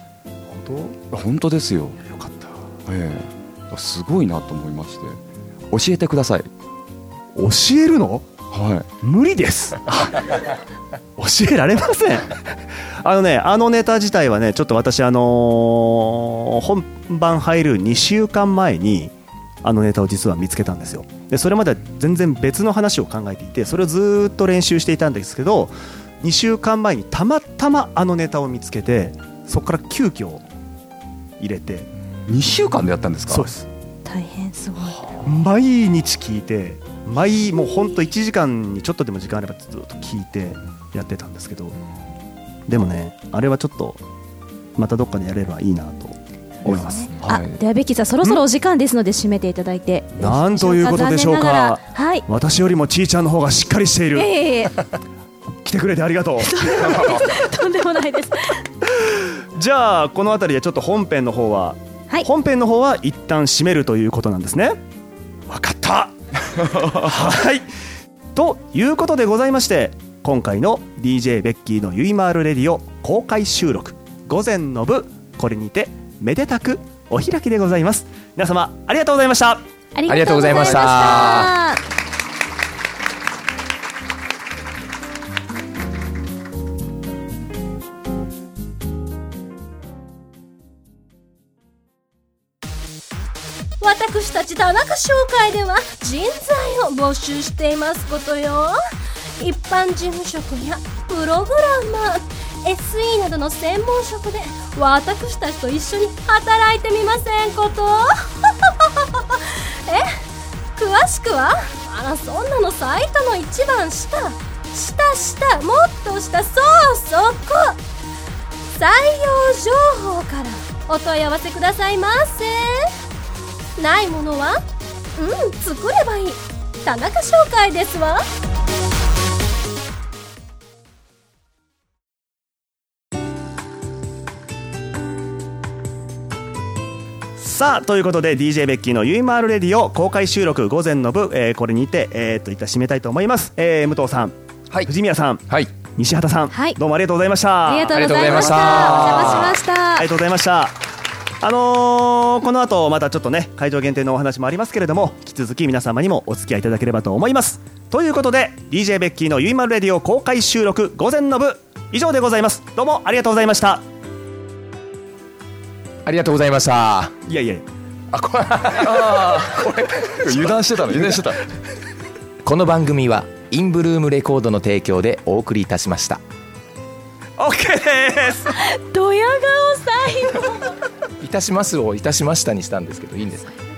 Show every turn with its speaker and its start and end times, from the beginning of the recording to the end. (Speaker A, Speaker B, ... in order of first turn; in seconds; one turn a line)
Speaker A: 0.5-1.0
Speaker B: 1.1-2.0
Speaker A: 2.0-2.6
Speaker B: 2.9-5.2
Speaker B: 5.7-6.5
Speaker A: 7.3-8.2
Speaker B: 8.5-8.9
Speaker A: 9.0-10.2
Speaker A: 11.2-19.1
Speaker A: 19.6-30.4
Speaker A: 31.4-31.9
Speaker B: 32.2-33.5
Speaker A: 33.3-33.7
Speaker C: 34.0-35.0
Speaker A: 35.2-41.8
Speaker A: 42.7-44.0
Speaker A: 44.8-47.1
Speaker C: 46.6-52.3
Speaker B: 46.6-47.6
Speaker A: 50.2-54.3
Speaker C: 54.1-54.7
Speaker A: 55.6-57.1
Speaker C: 56.4-58.6
Speaker A: 59.5-64.8
Speaker A: 65.5-67.7
Speaker A: 68.3-79.6
Speaker C: 79.9-81.8
Speaker D: 80.1-81.5
Speaker E: 93.8-98.8
Speaker E: 99.4-110.1
Speaker E: 110.8-117.8
Speaker E: 118.8-122.9
Speaker E: 123.8-124.6
Speaker E: 125.2-128.2
Speaker A: 137.4-150.8
Speaker C: 146.5-146.8
Speaker C: 147.6-150.1
Speaker D: 147.9-149.6
Speaker A: 151.4-163.8
Speaker D: 166.0-167.1
Speaker A: 167.2-167.6
Speaker D: 168.1-170.6
Speaker B: 169.0-169.5
Speaker B: 170.2-171.4
Speaker D: 172.4-176.2
Speaker A: 177.4-178.5
Speaker C: 178.5-180.8
Speaker D: 181.2-183.5